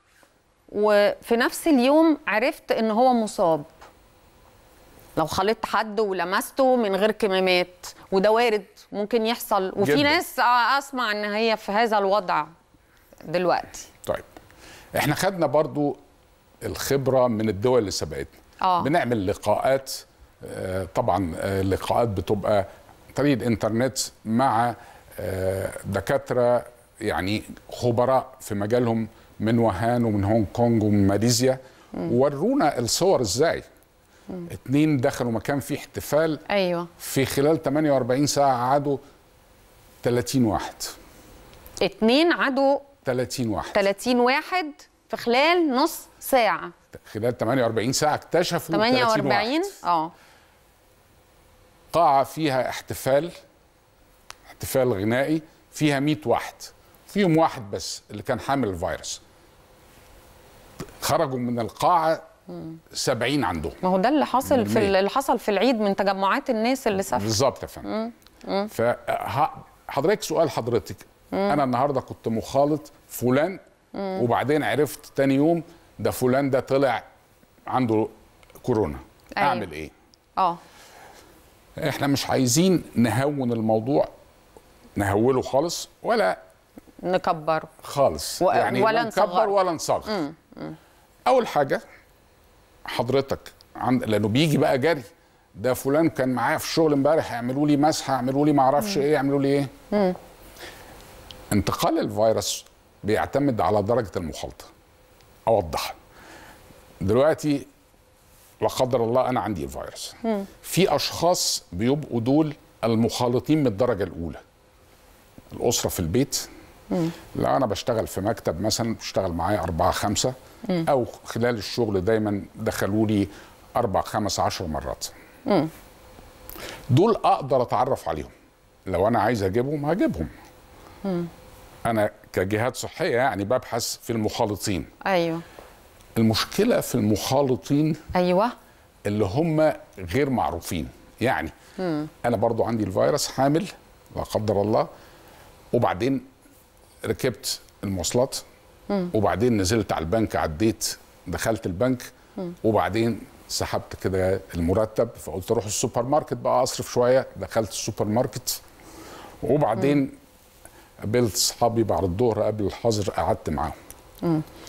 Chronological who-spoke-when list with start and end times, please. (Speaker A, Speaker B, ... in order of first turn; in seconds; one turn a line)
Speaker A: 0.7-3.7
Speaker A: 5.2-12.5
Speaker B: 9.8-10.2
Speaker A: 13.2-13.9
Speaker B: 14.9-16.0
Speaker B: 16.6-33.6
Speaker A: 18.6-18.9
Speaker B: 34.5-36.4
Speaker A: 36.5-36.9
Speaker B: 37.0-39.0
Speaker B: 40.0-40.9
Speaker A: 41.8-42.9
Speaker B: 43.0-43.8
Speaker A: 43.7-46.7
Speaker B: 46.9-49.7
Speaker A: 48.7-50.1
Speaker B: 51.9-53.3
Speaker B: 54.5-59.2
Speaker B: 61.0-62.2
Speaker B: 62.9-63.8
Speaker A: 63.8-68.7
Speaker B: 64.4-64.9
Speaker B: 67.1-67.9
Speaker B: 68.7-73.6
Speaker A: 71.3-71.6
Speaker B: 74.1-77.0
Speaker B: 77.7-79.9
Speaker A: 79.4-79.7
Speaker B: 81.8-84.1
Speaker B: 85.0-86.4
Speaker A: 87.0-87.7
Speaker B: 87.8-90.2
Speaker A: 88.4-89.5
Speaker A: 90.1-90.8
Speaker B: 91.2-91.8
Speaker B: 92.9-99.7
Speaker A: 99.9-100.2
Speaker B: 101.5-104.7
Speaker B: 105.5-106.0
Speaker B: 107.0-107.7
Speaker B: 108.6-114.4
Speaker B: 115.5-116.5
Speaker B: 117.3-120.3
Speaker B: 120.8-125.1
Speaker B: 126.9-128.3
Speaker B: 128.9-130.3
Speaker B: 131.8-134.9
Speaker A: 135.0-135.4
Speaker B: 136.2-138.0
Speaker A: 138.1-138.5
Speaker B: 139.1-141.5
Speaker B: 142.2-144.9
Speaker B: 145.7-146.2
Speaker B: 147.0-148.4
Speaker B: 149.1-152.1
Speaker B: 152.6-158.6
Speaker B: 159.4-160.1
Speaker B: 161.0-163.8